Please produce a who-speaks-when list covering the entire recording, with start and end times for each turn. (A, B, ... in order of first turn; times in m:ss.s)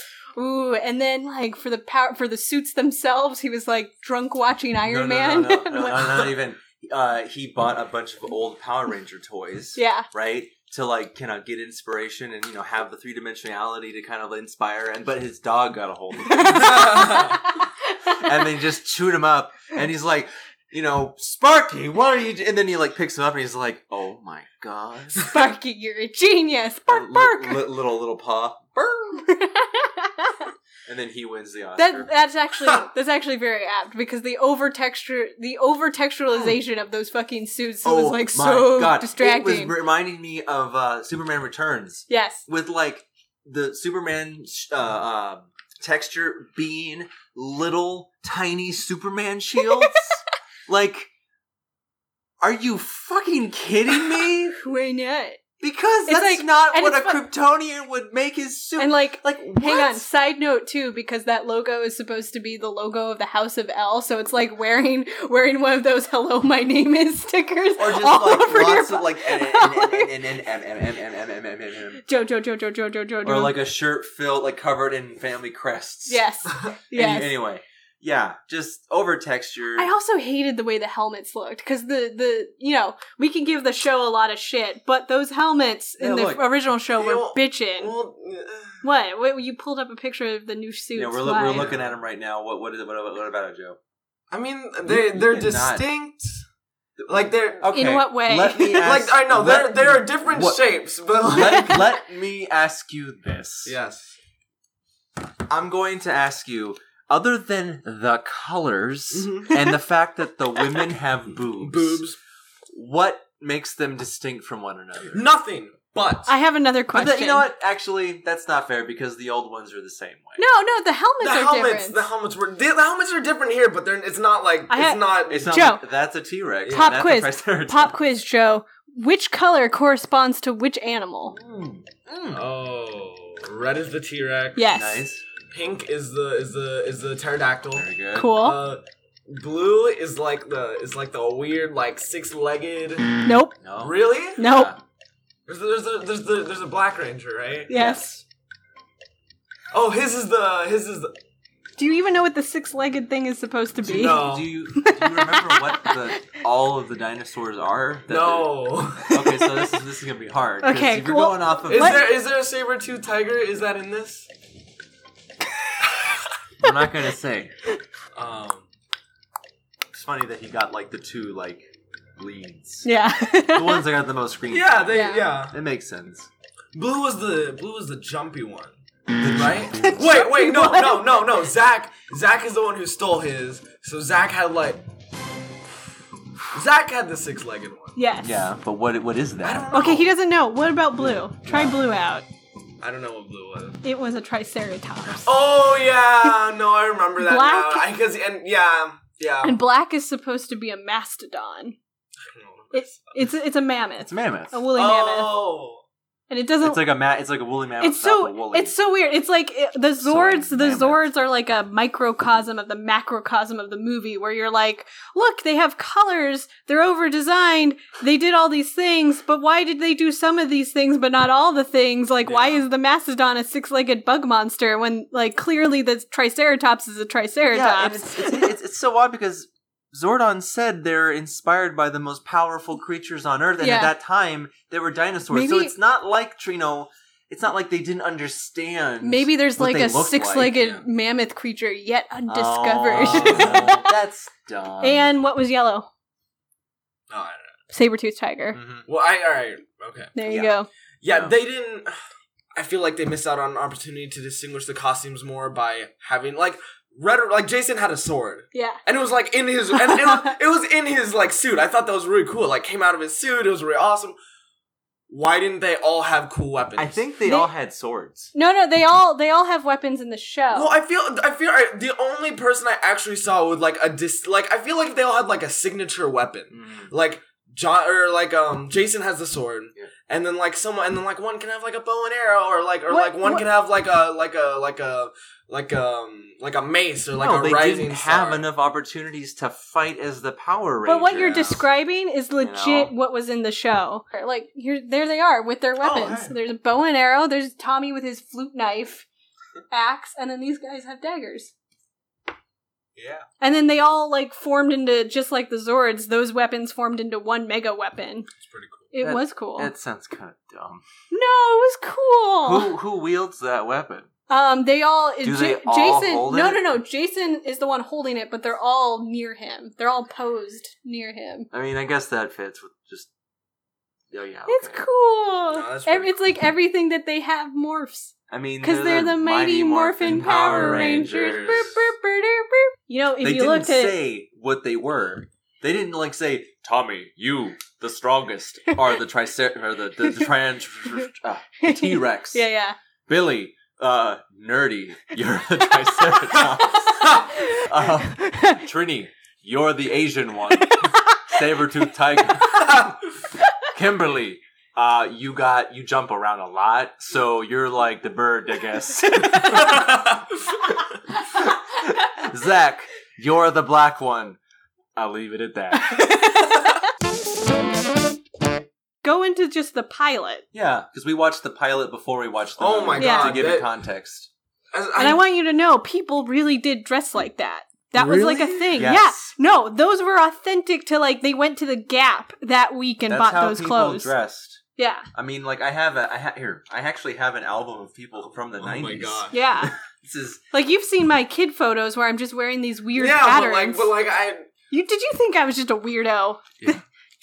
0:00.4-0:06.3 A
0:04.8-0:17.4 B
0:09.8-0:10.1 A
0:16.3-0:18.4 A
0:16.6-0:17.3 C
0:18.1-0:25.3 B
0:25.3-0:27.6 A
0:26.9-0:29.2 B
0:29.2-0:30.5 A
0:30.8-0:32.1 B
0:31.8-0:39.7 A
0:37.8-0:51.1 B
0:42.1-0:42.4 A
0:52.4-0:54.5 B
0:54.5-0:55.4 A
0:55.6-1:00.0 B
0:56.0-0:57.2 A
0:58.8-1:10.1 A
1:07.8-1:12.0 B
1:12.0-1:13.6 A
1:13.2-1:16.2 B
1:16.1-1:17.4 A
1:16.9-1:19.9 B
1:19.8-1:27.9 A
1:26.0-1:26.4 B
1:26.9-1:28.8 C
1:28.8-1:31.7 A
1:30.9-1:33.8 B
1:31.5-1:31.9 C
1:34.3-1:36.4 C
1:34.8-1:35.8 B
1:37.1-1:37.7 C
1:37.6-1:40.6 B
1:37.7-1:38.9 A
1:38.7-1:41.9 C
1:41.2-1:43.8 B
1:43.6-1:44.2 C
1:45.5-1:52.0 B
1:49.1-1:49.7 C
1:51.6-1:52.2 C
1:52.7-1:55.2 B
1:55.1-1:56.3 C
1:56.3-1:57.5 A
1:56.9-2:00.4 B
2:00.4-2:02.1 A
2:01.2-2:05.5 C
2:04.7-2:05.8 A
2:05.3-2:08.0 B
2:06.6-2:07.0 C
2:06.7-2:11.4 A
2:11.3-2:12.4 B
2:12.3-2:14.6 C
2:14.6-2:15.0 A
2:14.7-2:15.2 B
2:15.5-2:23.1 C
2:17.7-2:18.4 B
2:18.1-2:18.6 A
2:23.2-2:23.6 A
2:23.6-2:24.8 B
2:23.8-2:24.4 C
2:24.4-2:24.7 A
2:25.5-2:27.7 C
2:27.7-2:28.1 A
2:27.7-2:28.2 B
2:29.7-2:31.1 C
2:31.8-2:36.3 A
2:33.8-2:34.5 C
2:33.9-2:42.1 B
2:38.1-2:39.3 C
2:40.6-2:42.0 A
2:41.7-2:44.3 C
2:45.8-2:46.2 C
2:46.6-2:47.5 B
2:48.1-2:48.6 C
2:49.9-2:52.9 B
2:52.8-2:53.8 A
2:53.5-2:56.3 B
2:54.5-2:55.5 C
2:54.9-2:55.2 A
2:56.7-3:04.8 C
2:59.2-2:59.6 B
2:59.8-3:01.2 A
3:06.5-3:08.0 C
3:08.0-3:08.4 A
3:08.2-3:09.8 B
3:09.4-3:10.1 C
3:09.7-3:12.2 A
3:11.0-3:11.8 B
3:12.8-3:13.8 C
3:13.8-3:15.3 A
3:15.2-3:19.6 C
3:17.2-3:17.9 A
3:19.4-3:21.8 A
3:22.2-3:23.2 C
3:22.7-3:25.4 A
3:24.0-3:24.6 B
3:24.7-3:25.8 C
3:26.3-3:26.9 A
3:26.6-3:28.7 B
3:27.8-3:48.5 A
3:30.0-3:31.0 B
3:42.2-3:42.6 C
3:47.5-4:00.8 B
3:53.6-3:53.9 A
3:55.3-3:55.7 A
3:59.0-4:03.9 A
4:02.3-4:05.1 B
4:02.9-4:03.8 C
4:04.8-4:05.9 A
4:07.1-4:07.6 C
4:07.7-4:08.6 A
4:08.7-4:10.1 C
4:10.1-4:10.7 A
4:10.2-4:10.5 B
4:11.0-4:11.9 C
4:11.1-4:11.3 B
4:12.5-4:24.2 C
4:18.5-4:18.8 A
4:19.7-4:20.3 A
4:25.1-4:27.0 C
4:26.8-4:28.3 B
4:27.2-4:27.5 A
4:28.3-4:30.7 A
4:30.5-4:48.4 C
4:36.5-4:36.9 B
4:42.9-4:43.4 A
4:47.2-4:51.6 B
4:50.8-4:59.0 A
4:52.4-4:52.9 B
4:55.8-4:56.3 C
4:59.7-5:01.5 A
5:03.0-5:03.2 C
5:03.4-5:08.3 A
5:08.4-5:08.9 C
5:08.9-5:09.7 A
5:09.0-5:10.8 B
5:11.1-5:12.7 A
5:12.4-5:14.1 B
5:14.3-5:21.5 A
5:15.2-5:16.8 B
5:21.5-5:23.1 B
5:24.1-5:24.8 B
5:24.5-5:34.0 A
5:25.5-5:26.2 C
5:28.3-5:31.7 B
5:30.1-5:31.7 C
5:33.2-5:42.4 B
5:41.6-5:42.8 A
5:43.1-5:53.0 B
5:47.3-5:48.6 A
5:53.7-6:00.0 B
6:01.3-6:04.4 B
6:05.0-6:06.2 B
6:05.7-6:06.7 A
6:09.0-6:10.4 A
6:10.5-6:14.3 B
6:12.6-6:13.7 C
6:13.0-6:13.4 A
6:14.7-6:15.2 C
6:15.0-6:24.1 A
6:18.0-6:18.7 C
6:18.7-6:19.3 B
6:23.1-6:24.6 B
6:24.8-6:25.1 A
6:25.1-6:30.4 B
6:28.3-6:29.3 C
6:29.3-6:29.7 A
6:30.5-6:33.9 A
6:33.0-6:34.5 C
6:34.7-6:36.8 A